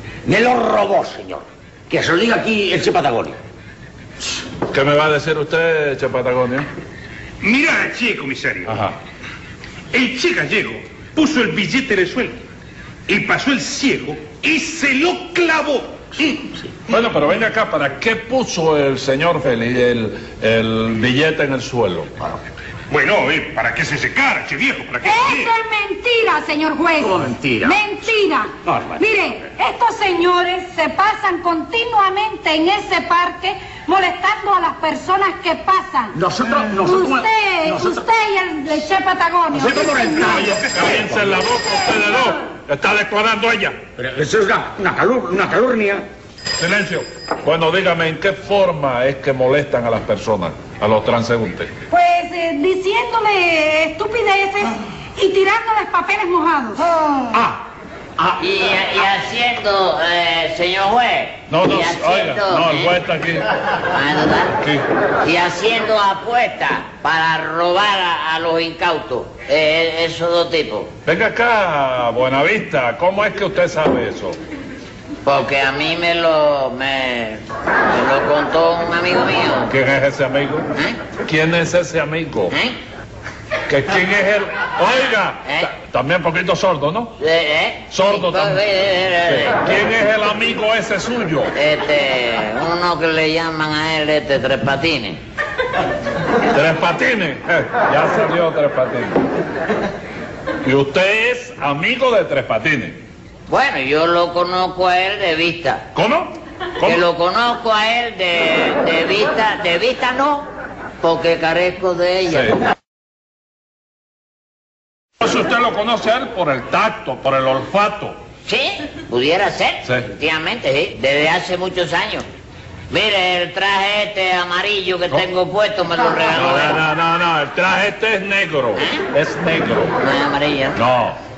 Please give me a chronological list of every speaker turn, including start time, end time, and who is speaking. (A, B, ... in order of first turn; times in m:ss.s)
0:00.2-0:03.4 A
0:04.7-0:06.7 B
0:07.4-0:08.8 C
0:08.7-0:09.0 B
0:09.9-0:12.4 C
0:13.1-0:16.6 C
0:16.9-0:22.3 B
0:22.9-0:25.5 C
0:25.0-0:36.2 D
0:27.0-0:28.0 A
0:28.6-0:29.1 A
0:36.1-0:38.1 A
0:36.8-0:40.4 D
0:39.5-0:41.4 A
0:40.2-0:43.8 B
0:44.0-0:46.1 A
0:46.6-0:51.7 B
0:51.9-0:56.8 D
0:57.3-0:57.6 A
0:58.4-1:02.9 E
1:01.5-1:03.5 B
1:03.7-1:04.6 E
1:05.2-1:10.9 E
1:11.1-1:14.4 B
1:15.2-1:19.7 E
1:19.7-1:20.7 B
1:21.2-1:22.5 B
1:23.7-1:27.1 B
1:25.5-1:25.7 E
1:27.2-1:29.6 E
1:27.9-1:28.6 B
1:29.3-1:31.5 B
1:31.5-1:35.2 E
1:36.5-1:39.2 B
1:40.6-1:43.0 B
1:43.5-1:45.9 E
1:46.0-1:47.0 B
1:46.8-1:50.5 E
1:51.0-1:52.6 E
1:52.3-1:52.6 B
1:55.2-1:58.2 B
1:58.4-2:02.2 E
2:02.9-2:06.8 E
2:06.3-2:10.0 B
2:08.8-2:09.1 E
2:10.0-2:10.8 E
2:10.8-2:11.2 B